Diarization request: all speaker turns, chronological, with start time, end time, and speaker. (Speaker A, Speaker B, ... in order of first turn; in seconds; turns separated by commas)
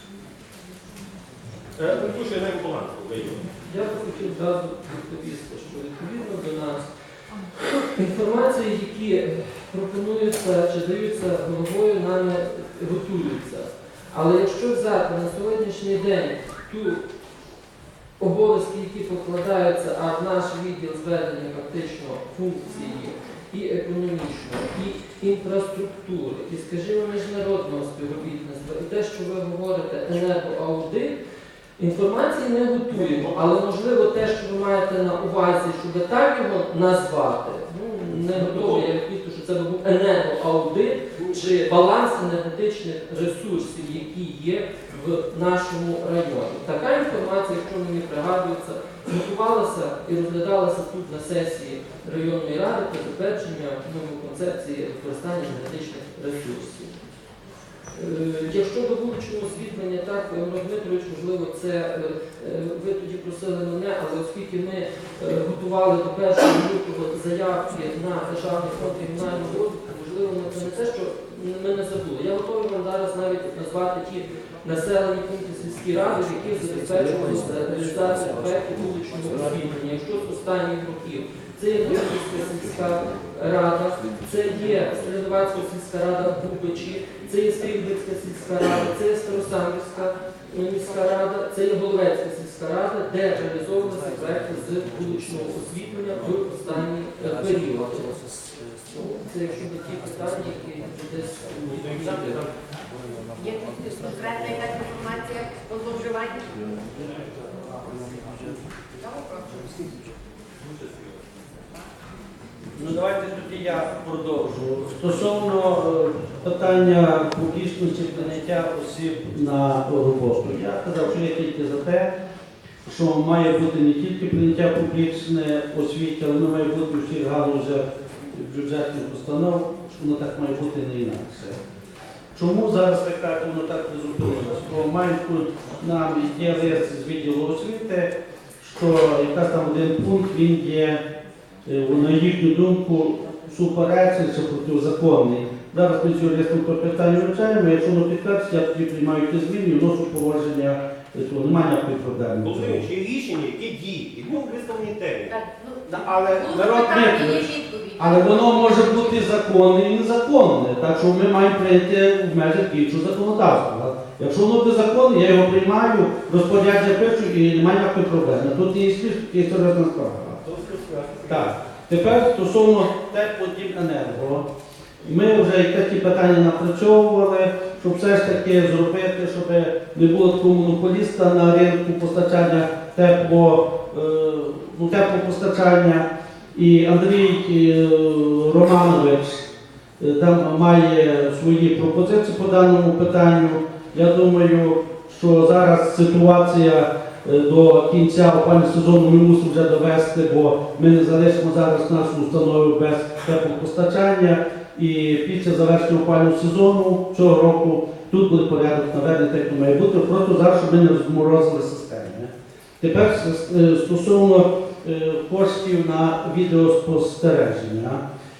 Speaker A: 1.8-3.5, Speaker B: 3.7-6.9, Speaker B: 7.7-17.0, Speaker B: 18.2-31.2, Speaker B: 31.8-57.0, Speaker A: 32.9-33.5, Speaker A: 38.3-38.9, Speaker B: 57.9-98.2, Speaker B: 98.9-102.5, Speaker A: 101.7-102.5, Speaker C: 103.4-106.8, Speaker A: 107.0-107.3, Speaker C: 107.4-108.2, Speaker C: 109.0-109.9, Speaker A: 110.6-111.3, Speaker D: 112.8-122.1, Speaker D: 122.9-131.6, Speaker D: 132.3-141.0, Speaker D: 141.7-152.8, Speaker A: 152.4-155.4, Speaker C: 155.3-159.3, Speaker D: 155.9-170.4, Speaker A: 170.4-171.6, Speaker D: 171.3-174.4, Speaker D: 175.0-189.5, Speaker D: 190.0-218.0